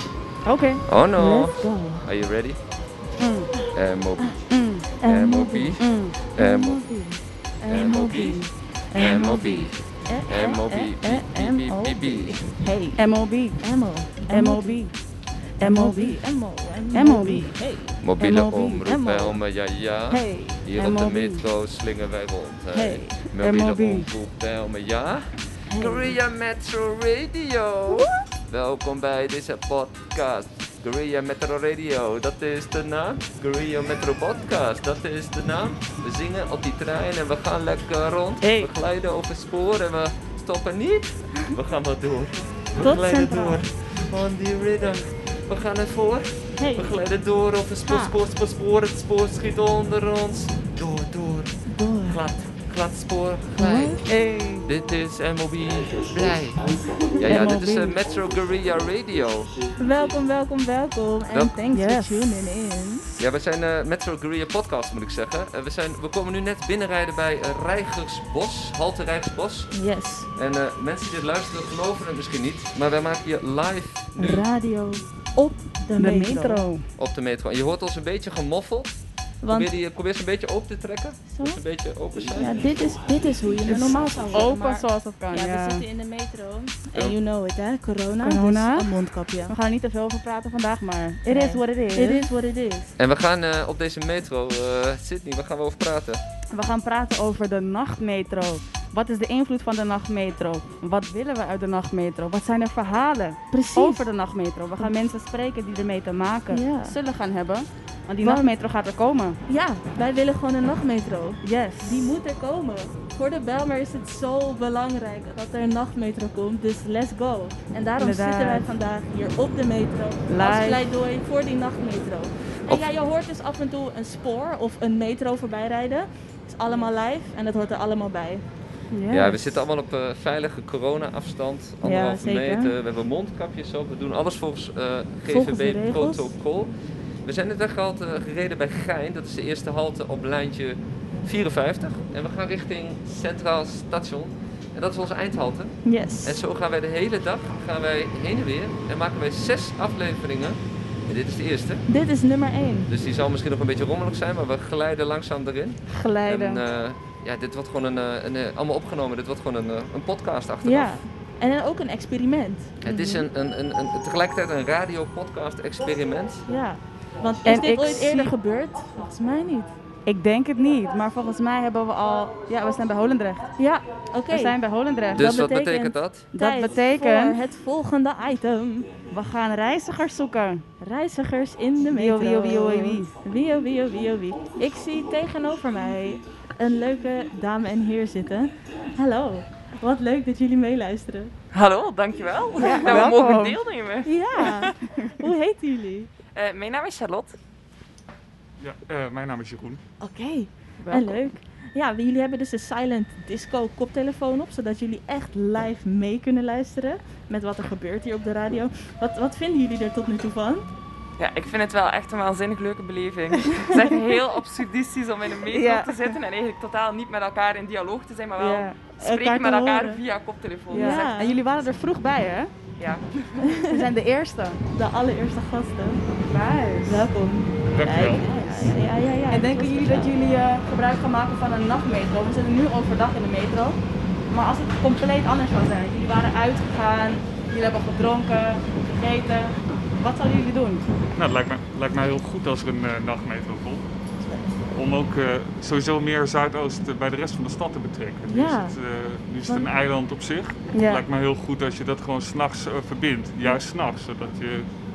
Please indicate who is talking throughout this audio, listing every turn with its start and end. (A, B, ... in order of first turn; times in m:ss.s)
0:00.4-0:00.8 A
0:00.8-0:02.6 B
0:01.2-0:02.1 C
0:03.2-0:03.5 A
0:03.5-0:04.4 C
0:03.7-0:04.4 B
0:04.5-0:05.0 A
0:05.0-0:05.8 C
0:05.1-0:05.8 B
0:05.8-0:06.2 A
0:06.4-0:06.8 B
0:06.4-0:13.0 C
0:07.7-0:08.4 B
0:09.0-0:12.4 B
0:13.0-0:13.6 A
0:13.6-0:14.8 C
0:14.3-0:15.0 A
0:15.6-0:16.2 A
0:15.6-0:18.0 C
0:16.9-0:17.6 A
0:18.0-0:54.0 B
0:18.2-0:18.9 A
0:18.8-0:19.4 C
0:20.1-0:20.6 C
0:20.7-0:21.5 A
0:22.7-0:23.3 C
0:23.4-0:24.1 A
0:25.7-0:26.2 A
0:27.9-0:28.1 C
0:38.4-0:38.7 C
0:42.8-0:43.7 C
0:46.6-0:47.0 C
0:47.8-0:48.2 C
0:51.7-0:52.2 C
0:53.6-0:54.0 C
0:54.1-0:54.7 A
0:54.7-0:59.6 B
0:57.2-0:58.0 A
0:59.8-1:03.1 C
1:01.6-1:02.5 A
1:03.2-1:09.7 B
1:09.7-1:10.3 C
1:10.4-1:14.4 B
1:14.2-1:16.6 C
1:16.0-1:16.9 A
1:17.0-1:19.0 B
1:19.4-1:19.7 C
1:19.5-1:22.6 B
1:21.3-1:21.6 C
1:22.4-1:29.6 C
1:23.7-1:25.8 A
1:28.2-1:28.9 A
1:29.5-1:32.3 A
1:31.2-1:32.9 C
1:33.0-1:36.2 B
1:36.5-1:49.4 A
1:43.5-1:44.1 C
1:46.5-1:47.0 C
1:48.2-1:48.5 C
1:49.5-2:08.4 C
1:51.4-1:52.2 A
1:58.0-1:58.7 A
2:00.3-2:00.8 A
2:08.9-2:09.6 A
2:09.1-2:16.7 B
2:11.8-2:12.8 C
2:15.3-2:16.3 C
2:17.2-2:31.8 B
2:25.8-2:26.4 C
2:31.9-2:32.9 C
2:32.9-2:41.0 B
2:35.9-2:36.6 A
2:40.6-2:43.3 C
2:42.8-2:46.4 B
2:46.5-2:49.7 C
2:47.4-2:48.3 A
2:50.1-2:53.5 A
2:53.6-2:54.6 C
2:54.3-2:55.3 A
2:55.2-2:58.9 C
2:55.2-2:56.3 B
2:56.3-2:57.4 A
2:59.1-3:00.6 A
3:00.8-3:11.3 C
3:01.9-3:03.1 A
3:11.5-3:14.2 D
3:12.6-3:13.1 C
3:12.6-3:13.6 A
3:14.0-3:16.1 C
3:14.4-3:15.2 A
3:16.4-3:17.4 D
3:18.6-3:19.8 E
3:20.0-3:30.7 C
3:20.8-3:21.2 A
3:31.2-3:41.1 D
3:33.7-3:34.1 A
3:35.4-3:36.2 A
3:38.4-3:39.5 A
3:39.0-3:40.0 C
3:40.7-3:41.4 C
3:40.7-3:42.7 A
3:42.8-3:43.0 D
3:43.4-3:43.8 C
3:43.6-3:44.6 A
3:44.7-3:46.0 C
3:46.2-3:47.1 A
3:46.8-3:50.1 C
3:47.7-3:48.3 E
3:49.3-4:00.9 A
4:01.2-4:03.9 E
4:04.2-4:04.7 C
4:04.7-4:14.7 E
4:08.3-4:08.8 C
4:09.4-4:09.7 C
4:10.7-4:11.0 A